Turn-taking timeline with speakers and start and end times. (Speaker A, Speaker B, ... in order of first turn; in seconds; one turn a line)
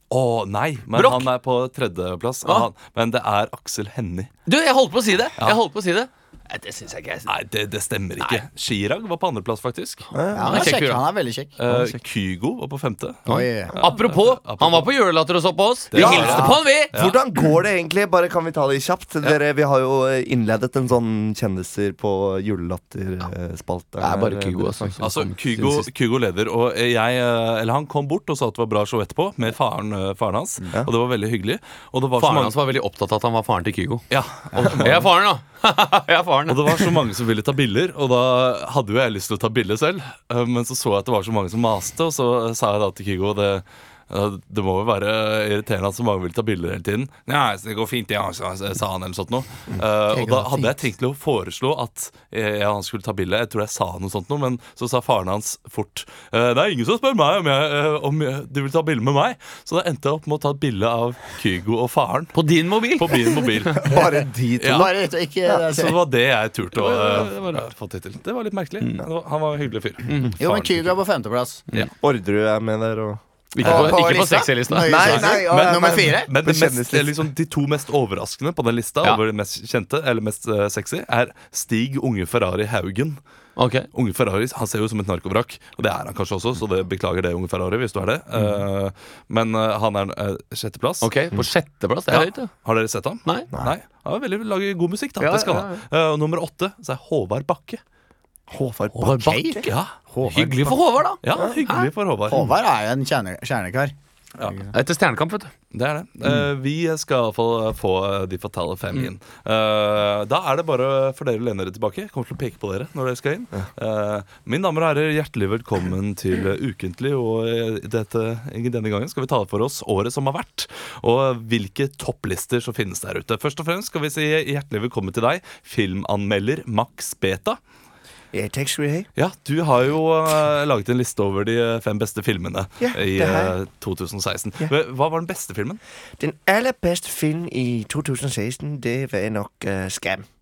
Speaker A: 0.1-4.3
Speaker B: 0.9-1.3
Speaker B: 4.5-7.3
Speaker A: 7.3-10.1
Speaker B: 8.2-8.4
Speaker C: 10.1-10.7
Speaker D: 10.3-11.5
Speaker B: 10.4-11.0
Speaker A: 11.6-14.9
Speaker D: 13.3-13.8
Speaker B: 13.3-16.9
Speaker A: 15.9-17.2
Speaker C: 15.9-24.9
Speaker B: 24.0-25.9
Speaker A: 25.0-32.5
Speaker B: 32.2-37.0
Speaker A: 34.1-35.1
Speaker A: 36.5-62.4
Speaker D: 50.1-50.8
Speaker B: 62.3-63.7
Speaker A: 62.9-63.9
Speaker C: 63.8-64.8
Speaker D: 63.9-66.0
Speaker A: 64.6-64.9
Speaker A: 65.5-70.9
Speaker B: 66.7-67.7
Speaker B: 70.1-70.3
Speaker D: 70.4-71.7
Speaker C: 72.0-73.2
Speaker B: 73.5-75.2
Speaker D: 73.6-76.3
Speaker A: 73.6-74.2
Speaker C: 74.8-77.2
Speaker A: 75.0-83.2
Speaker B: 83.6-83.9
Speaker A: 83.9-91.1
Speaker B: 91.0-92.5
Speaker A: 92.1-97.8
Speaker B: 95.2-95.8
Speaker C: 98.5-99.7
Speaker D: 99.0-100.8
Speaker A: 99.6-99.9
Speaker B: 100.2-101.9
Speaker A: 101.2-102.5
Speaker D: 102.3-104.7
Speaker B: 104.7-105.5
Speaker A: 105.7-127.6
Speaker C: 128.3-129.1
Speaker A: 129.2-135.8
Speaker C: 132.8-133.5
Speaker C: 136.2-140.2